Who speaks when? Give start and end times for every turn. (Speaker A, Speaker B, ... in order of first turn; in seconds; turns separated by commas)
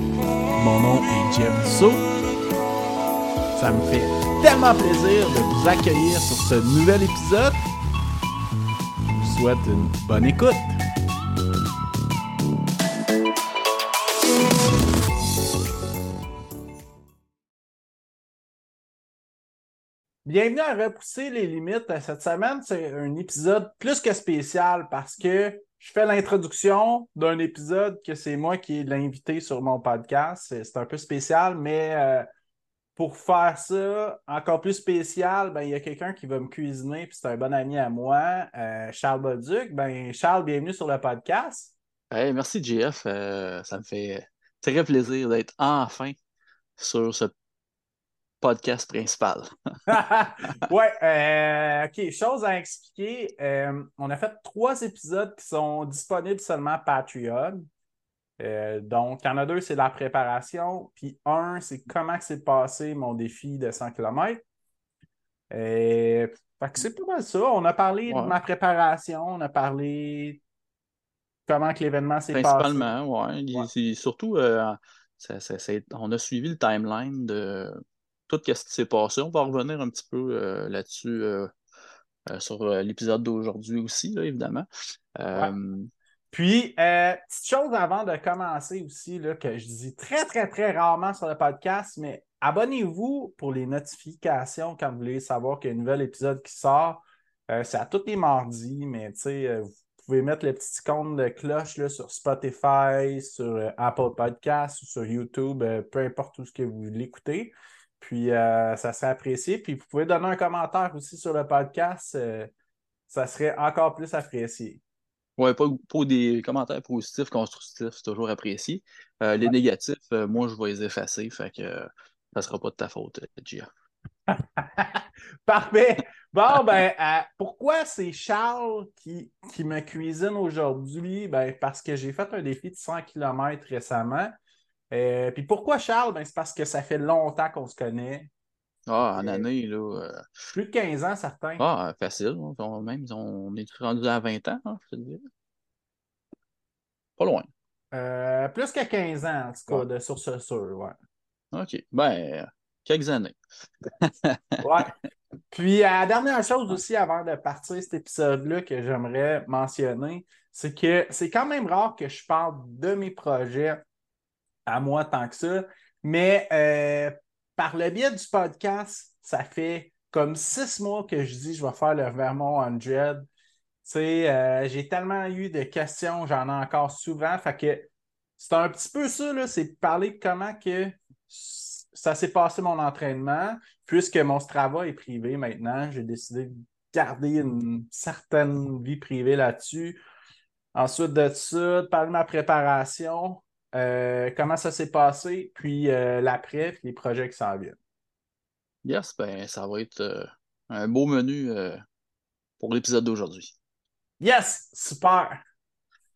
Speaker A: 0.6-2.1, Speaker A: 3.5-7.6, Speaker A: 9.2-10.8, Speaker A: 20.2-32.3, Speaker A: 33.0-41.7, Speaker B: 42.1-46.2, Speaker B: 46.8-47.3, Speaker B: 48.4-49.5, Speaker A: 49.9-57.6, Speaker A: 58.4-64.4, Speaker A: 65.5-70.4, Speaker B: 68.1-68.3, Speaker A: 71.5-72.9, Speaker B: 72.3-81.5, Speaker B: 82.3-85.9, Speaker A: 86.3-112.5, Speaker A: 113.1-114.8, Speaker B: 115.4-123.7, Speaker A: 124.3-134.3, Speaker A: 134.9-138.3, Speaker B: 138.9-140.2, Speaker A: 139.1-139.5, Speaker A: 140.5-141.6, Speaker B: 141.6-145.2, Speaker B: 147.2-147.5, Speaker A: 147.9-151.0, Speaker B: 151.5-153.4, Speaker B: 154.0-154.6, Speaker A: 154.6-154.9, Speaker A: 155.5-163.8, Speaker A: 164.7-173.3, Speaker A: 173.8-190.0, Speaker A: 190.7-197.8, Speaker B: 198.8-201.8, Speaker B: 202.6-203.6, Speaker A: 204.2-205.4